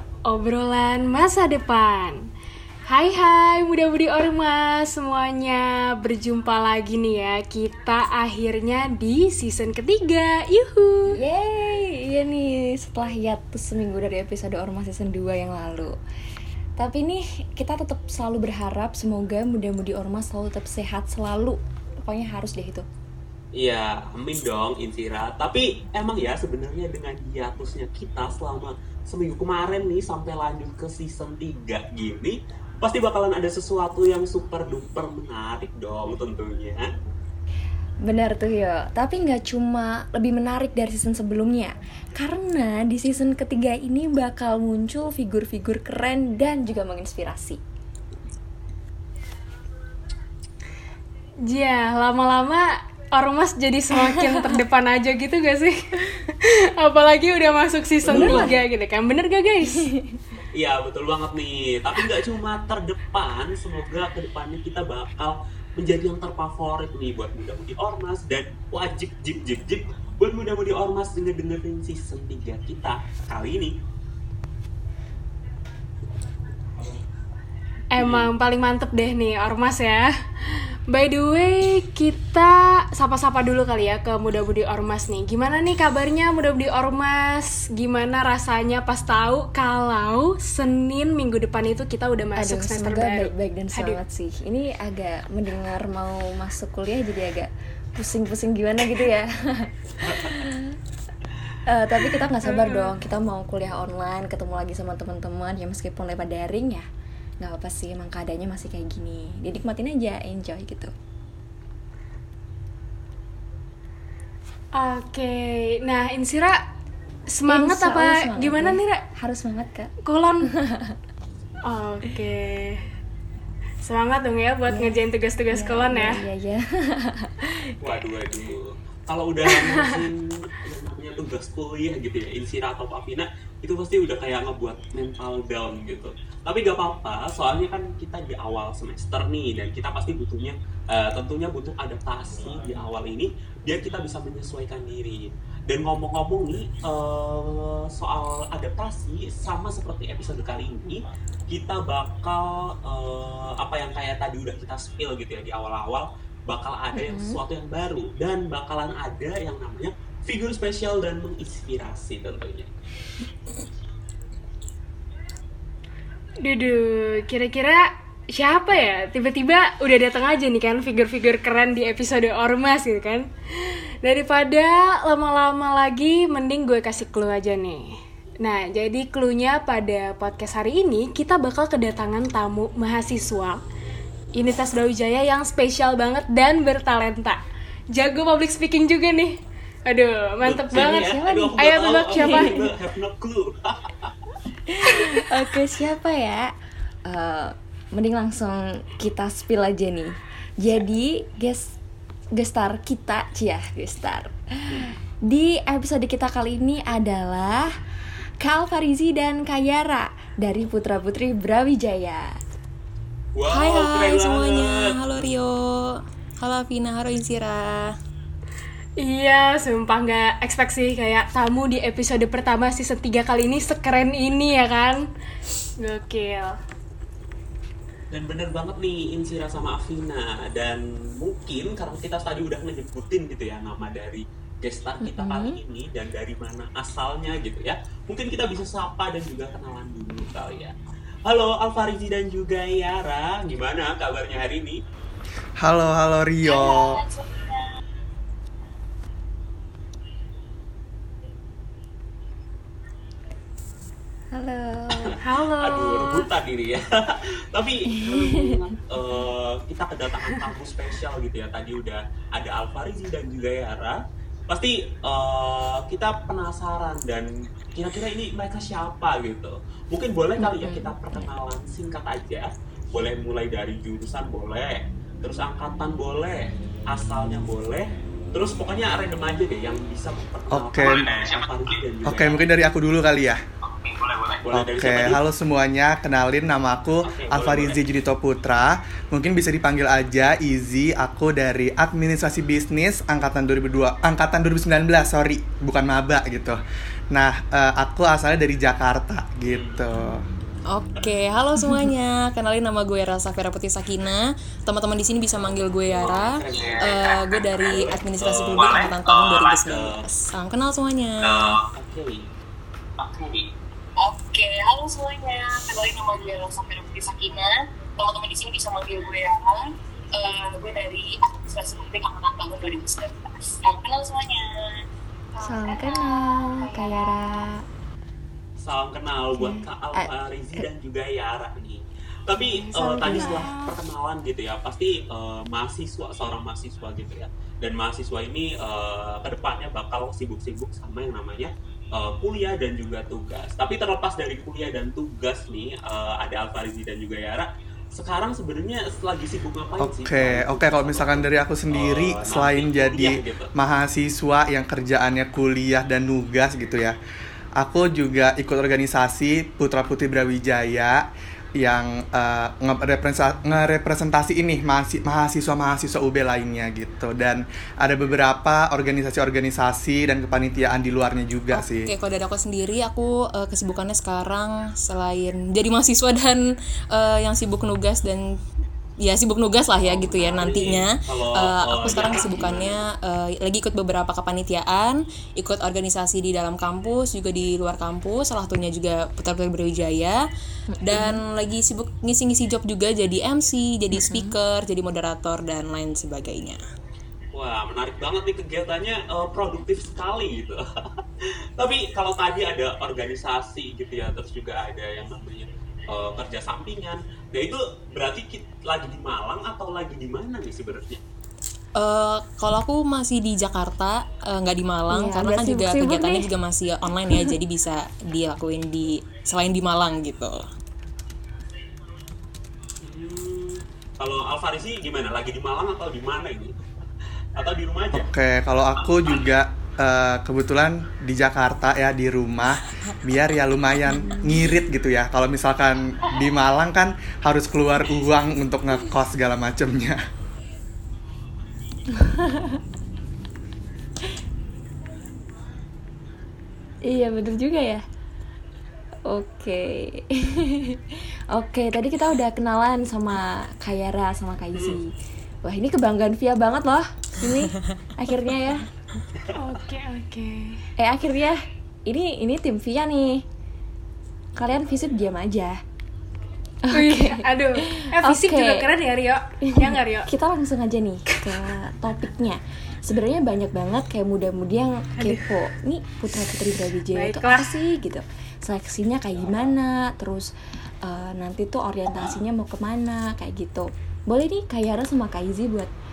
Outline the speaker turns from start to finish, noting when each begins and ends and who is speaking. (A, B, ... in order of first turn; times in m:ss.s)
0:00.2-0:02.3 A
0:02.9-0:11.2 A
0:11.1-0:16.0 B
0:16.8-0:22.8 B
0:23.6-0:36.9 C
0:38.0-0:47.6 B
0:51.4-0:59.9 A
0:53.9-0:54.6 B
0:58.0-0:58.6 B
0:58.1-0:58.6 C
0:59.6-1:00.2 B
1:00.5-1:13.8 C
1:17.9-1:34.0 A
1:18.0-1:18.3 C
1:32.4-1:40.8 B
1:41.7-1:46.8 B
1:42.4-1:42.9 A
1:47.4-1:50.9 B
1:54.7-1:56.6 A
1:57.3-1:59.0 A
1:57.5-2:01.0 B
2:00.0-2:00.5 A
2:01.6-2:02.8 A
2:03.8-2:06.3 A
2:04.7-2:08.0 B
2:07.8-2:42.7 C
2:37.0-2:37.4 B
2:46.4-3:03.6 A
3:04.3-3:07.4 A
3:07.9-3:12.7 A
3:10.4-3:14.1 C
3:10.7-3:12.7 B
3:14.7-3:16.5 B
3:17.1-3:21.8 B
3:22.3-3:27.8 B
3:28.4-3:32.3 B
3:33.4-3:35.0 C
3:33.4-3:37.9 D
3:39.0-3:45.1 A
3:45.8-3:46.6 A
3:48.1-4:00.7 C
3:55.0-3:55.6 B
4:01.2-4:04.8 C
4:05.6-4:07.0 E
4:06.4-4:07.7 F
4:14.3-4:15.2 B
4:14.9-4:42.5 C
4:15.2-4:16.3 A
4:17.9-4:18.6 B
4:30.4-4:31.3 B
4:40.5-4:41.1 E
4:42.0-4:43.4 E
4:43.8-4:45.2 C
4:44.5-4:56.6 E
4:47.0-4:47.8 C
4:57.1-5:00.2 E
4:59.5-4:59.9 C
5:00.7-5:11.6 D
5:06.0-5:10.0 C
5:11.4-5:12.3 C
5:13.0-5:13.4 C
5:14.0-5:24.4 F
5:25.4-5:27.0 F
5:25.4-5:27.6 B
5:28.6-5:53.5 C
5:29.3-5:30.6 B
5:32.4-5:33.5 B
5:32.6-5:33.7 A
5:49.8-5:57.0 E
5:57.6-6:01.0 E
6:01.6-6:11.9 E
6:11.5-6:18.4 D
6:19.0-6:30.2 D
6:19.8-6:22.8 C
6:30.7-6:31.2 B
6:30.8-6:36.6 D
6:33.9-6:34.4 B
6:37.3-6:40.6 C
6:41.2-6:51.0 C
6:51.8-7:00.4 D
6:54.9-6:56.3 B
7:02.8-7:06.6 C
7:07.4-7:08.1 C
7:07.9-7:20.0 E
7:21.9-7:22.6 B
7:26.8-7:27.8 B
7:29.1-7:34.9 B
7:35.4-7:38.6 B
7:39.4-7:40.6 A
7:40.8-7:43.2 B
7:44.4-7:45.6 B
7:46.6-7:48.7 B
7:46.7-7:50.1 A
7:49.4-8:00.3 B
7:55.0-7:55.3 A
7:56.9-7:57.6 A
8:00.8-8:05.7 B